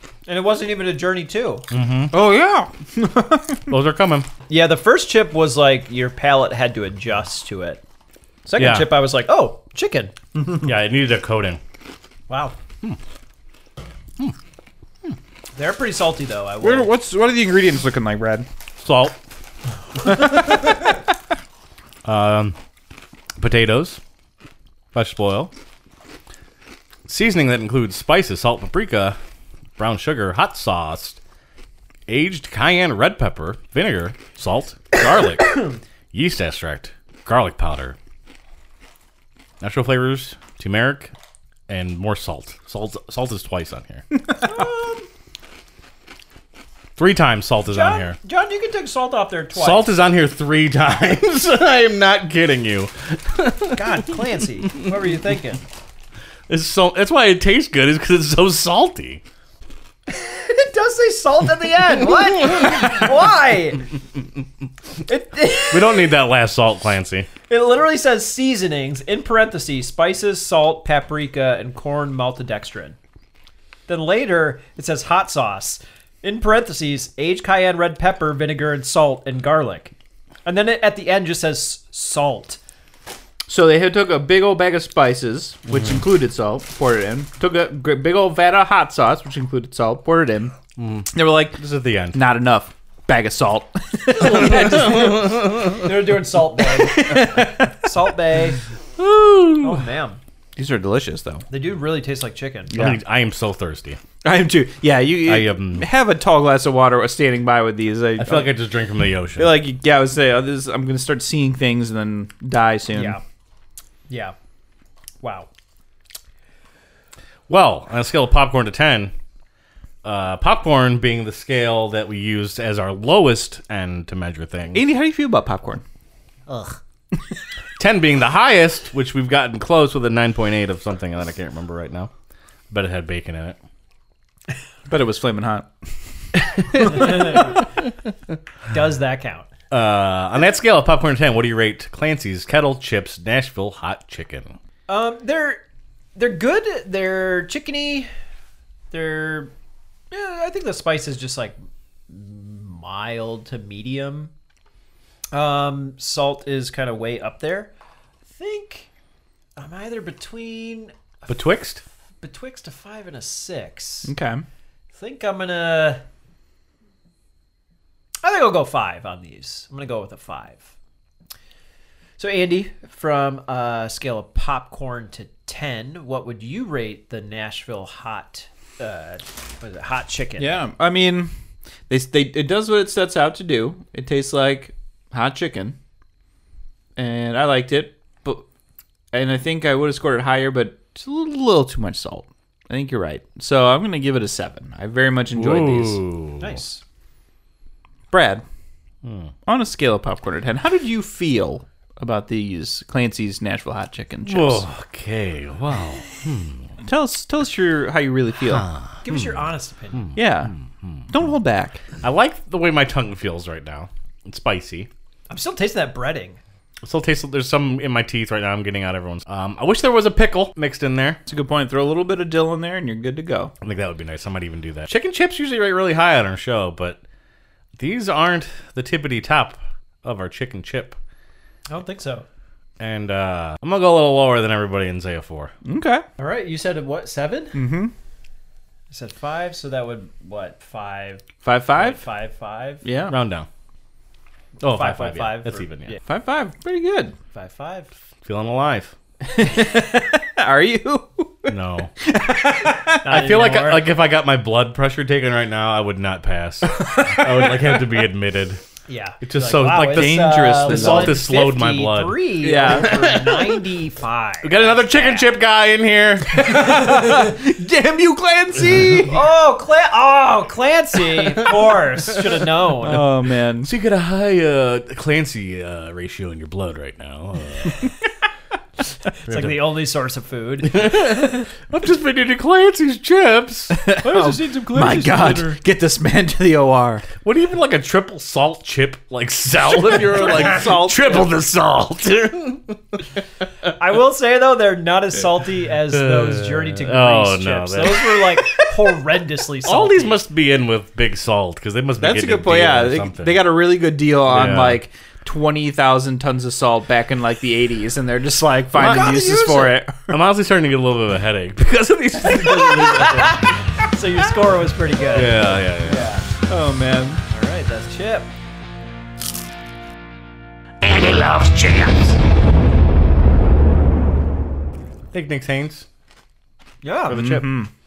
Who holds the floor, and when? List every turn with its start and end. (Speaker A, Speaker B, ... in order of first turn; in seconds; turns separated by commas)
Speaker A: 0.2-1.6, Speaker B: 1.7-2.1, Speaker C: 2.1-3.7, Speaker B: 3.7-4.3, Speaker A: 4.5-7.8, Speaker A: 8.4-10.6, Speaker B: 8.6-9.0, Speaker B: 10.5-11.6, Speaker A: 12.3-12.6, Speaker A: 15.5-16.9, Speaker C: 16.6-18.5, Speaker B: 18.8-19.2, Speaker C: 20.1-20.6, Speaker B: 22.0-22.6, Speaker B: 23.4-24.0, Speaker B: 24.9-25.5, Speaker B: 27.1-29.2, Speaker B: 29.8-31.2, Speaker B: 32.1-35.6, Speaker A: 35.4-35.7, Speaker B: 36.1-38.0, Speaker B: 39.6-41.1, Speaker B: 41.7-44.0, Speaker A: 44.4-45.1, Speaker B: 47.0-48.2, Speaker A: 47.6-49.9, Speaker B: 49.5-54.1, Speaker A: 53.7-55.6, Speaker B: 56.5-59.2, Speaker A: 60.1-63.9, Speaker A: 65.0-66.2, Speaker B: 65.7-67.3, Speaker A: 67.5-73.0, Speaker A: 73.9-79.9, Speaker A: 80.4-82.6, Speaker C: 83.5-90.5, Speaker B: 85.7-86.0, Speaker B: 90.8-92.2, Speaker C: 91.1-91.6, Speaker C: 92.1-97.9, Speaker B: 94.2-95.9, Speaker A: 95.7-98.6, Speaker B: 99.0-99.8, Speaker A: 99.6-100.2, Speaker C: 100.5-101.4, Speaker A: 101.5-102.8, Speaker C: 102.7-103.0, Speaker B: 102.7-104.0, Speaker C: 104.2-108.5, Speaker B: 105.2-105.9, Speaker B: 108.2-109.6, Speaker C: 109.3-113.2, Speaker A: 112.9-113.2, Speaker A: 114.1-114.3, Speaker A: 115.2-115.5, Speaker B: 117.5-119.1, Speaker B: 120.0-124.8, Speaker C: 124.7-125.8, Speaker A: 126.5-126.8, Speaker B: 127.8-132.1, Speaker B: 132.7-133.6, Speaker C: 134.9-135.7, Speaker C: 136.6-137.5, Speaker A: 136.7-137.6, Speaker A: 138.7-139.5, Speaker B: 139.7-144.6, Speaker A: 144.9-145.6, Speaker A: 146.2-148.1, Speaker A: 148.9-149.5, Speaker A: 150.1-151.6, Speaker A: 152.1-154.3, Speaker A: 155.3-157.7, Speaker A: 158.3-158.9, Speaker A: 159.6-161.4, Speaker B: 161.3-161.8, Speaker A: 162.2-164.1, Speaker C: 164.0-164.4, Speaker A: 164.9-166.0, Speaker A: 168.2-170.7, Speaker A: 172.2-180.6, Speaker C: 180.3-181.3, Speaker C: 181.9-185.8, Speaker C: 187.0-188.4, Speaker C: 189.1-196.0, Speaker B: 195.3-196.6, Speaker A: 196.4-196.8, Speaker C: 198.1-198.4, Speaker B: 199.0-199.3, Speaker C: 199.4-204.7, Speaker B: 204.2-206.7, Speaker C: 206.8-208.7, Speaker B: 208.4-211.1, Speaker A: 209.0-210.2, Speaker C: 210.1-210.6, Speaker C: 211.1-211.8, Speaker B: 212.0-214.9, Speaker A: 215.3-216.4, Speaker B: 216.8-221.2, Speaker C: 221.2-223.5, Speaker B: 223.6-227.0, Speaker B: 227.8-231.0, Speaker A: 231.7-232.2, Speaker B: 232.8-235.5, Speaker C: 235.6-236.0, Speaker A: 236.2-237.6, Speaker C: 237.5-237.9, Speaker A: 238.9-242.8, Speaker C: 241.4-242.0, Speaker C: 242.8-243.2, Speaker B: 243.1-243.5, Speaker B: 244.6-245.9, Speaker A: 244.6-246.0, Speaker C: 246.0-247.2, Speaker A: 247.3-247.9, Speaker B: 248.2-248.9, Speaker C: 249.3-253.0, Speaker B: 251.5-251.9, Speaker A: 253.0-253.9, Speaker B: 253.0-258.6, Speaker C: 256.8-257.6, Speaker A: 258.9-265.4, Speaker B: 259.2-263.6, Speaker C: 259.9-261.2, Speaker C: 262.4-263.0, Speaker B: 264.4-266.5, Speaker C: 266.4-269.2, Speaker A: 269.1-273.1, Speaker C: 272.8-273.7, Speaker B: 273.6-277.9, Speaker A: 279.2-281.5, Speaker B: 279.2-279.7, Speaker B: 280.6-283.7, Speaker C: 283.7-287.1, Speaker A: 284.0-285.6, Speaker B: 287.2-293.0, Speaker A: 289.7-291.2, Speaker A: 293.8-300.2, Speaker B: 295.9-298.7, Speaker B: 299.6-303.5, Speaker C: 302.0-310.2, Speaker B: 304.3-304.8, Speaker B: 308.7-309.6, Speaker A: 308.7-309.8, Speaker B: 310.1-313.5, Speaker A: 312.2-316.3, Speaker B: 315.1-316.1, Speaker C: 316.5-317.2, Speaker A: 317.3-318.3, Speaker B: 320.8-322.2, Speaker B: 325.1-325.9, Speaker A: 326.8-327.2, Speaker B: 327.1-327.6, Speaker C: 327.1-327.7